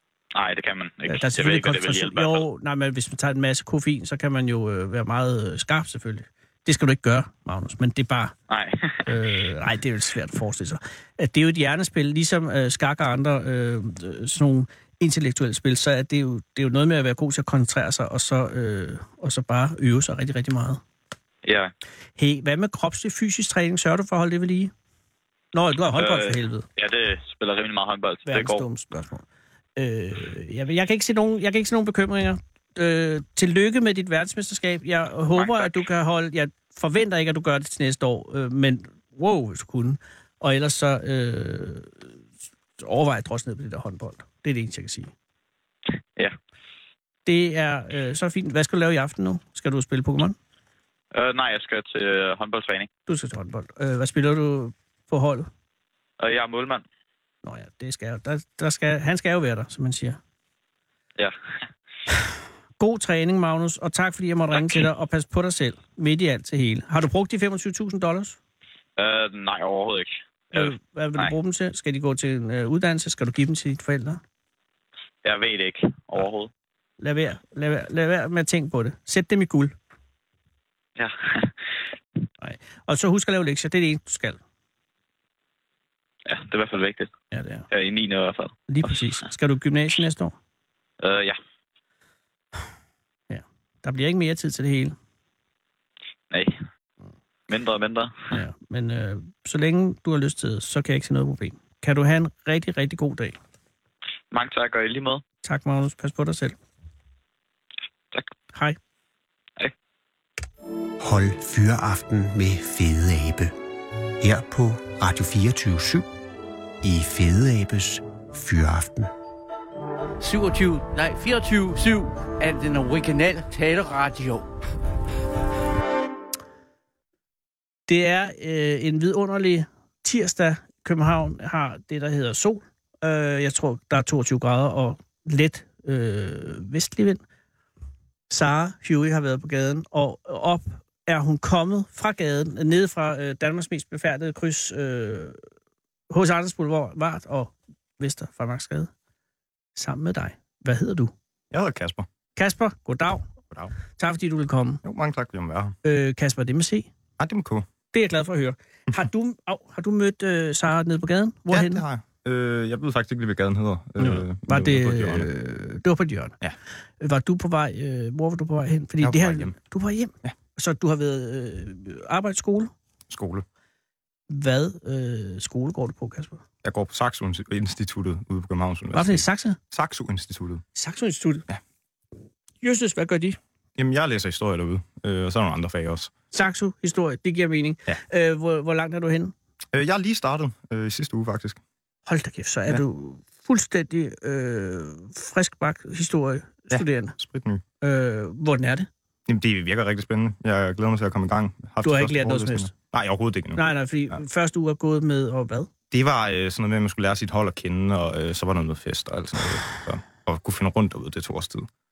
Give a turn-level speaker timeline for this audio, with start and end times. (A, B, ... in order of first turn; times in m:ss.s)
0:00.3-0:02.4 A
0:01.1-0:08.3 B
0:08.5-0:09.1 A
0:09.0-0:20.8 B
0:21.4-0:21.7 A
0:22.2-0:24.7 B
0:25.5-0:26.6 B
0:26.0-0:28.6 A
0:28.3-0:29.2 B
0:29.8-0:42.1 B
0:35.4-0:35.8 A
0:42.8-0:45.1 B
0:47.2-0:50.4 B
0:51.1-0:52.9 A
0:53.1-0:55.5 B
0:56.2-0:56.8 A
0:57.4-1:00.2 B
1:02.8-1:08.4 B
1:09.0-1:11.3 A
1:10.5-1:14.2 B
1:15.2-1:16.5 A
1:17.0-1:19.8 B
1:21.0-1:21.6 A
1:22.4-1:24.4 B
1:26.2-1:27.1 A
1:27.3-1:27.6 B
1:27.7-1:28.6 A
1:28.7-1:30.3 B
1:31.0-1:31.4 A
1:33.3-1:34.9 B
1:36.3-1:36.6 A
1:37.5-1:38.3 A
1:38.3-1:43.4 B
1:44.3-1:45.2 A
1:45.4-1:46.6 B
1:48.5-1:48.8 B
1:51.0-1:53.5 C
1:54.2-1:56.1 C
1:56.8-1:59.1 C
2:00.2-2:04.5 D
2:07.9-2:17.2 B
2:18.3-2:25.4 B
2:26.1-2:28.9 B
2:29.8-2:31.1 B
2:31.5-2:32.0 E
2:32.4-2:33.3 B
2:33.9-2:34.8 B
2:34.8-2:35.8 E
2:35.8-2:36.9 B
2:37.2-2:37.6 E
2:37.9-2:41.8 B
2:41.5-2:45.3 E
2:44.0-2:46.3 B
2:47.0-2:52.7 B
2:49.0-2:49.6 E
2:53.1-2:53.4 E
2:54.3-2:56.4 B
2:56.6-3:00.6 E
2:58.9-2:59.6 B
3:00.7-3:01.4 B
3:02.6-3:03.4 B
3:03.8-3:06.1 E
3:06.3-3:09.3 B
3:09.7-3:11.6 E
3:12.1-3:17.2 B
3:16.7-3:17.6 E
3:17.8-3:18.9 B
3:19.3-3:23.6 E
3:21.8-3:22.7 B
3:23.5-3:25.7 B
3:25.9-3:31.7 E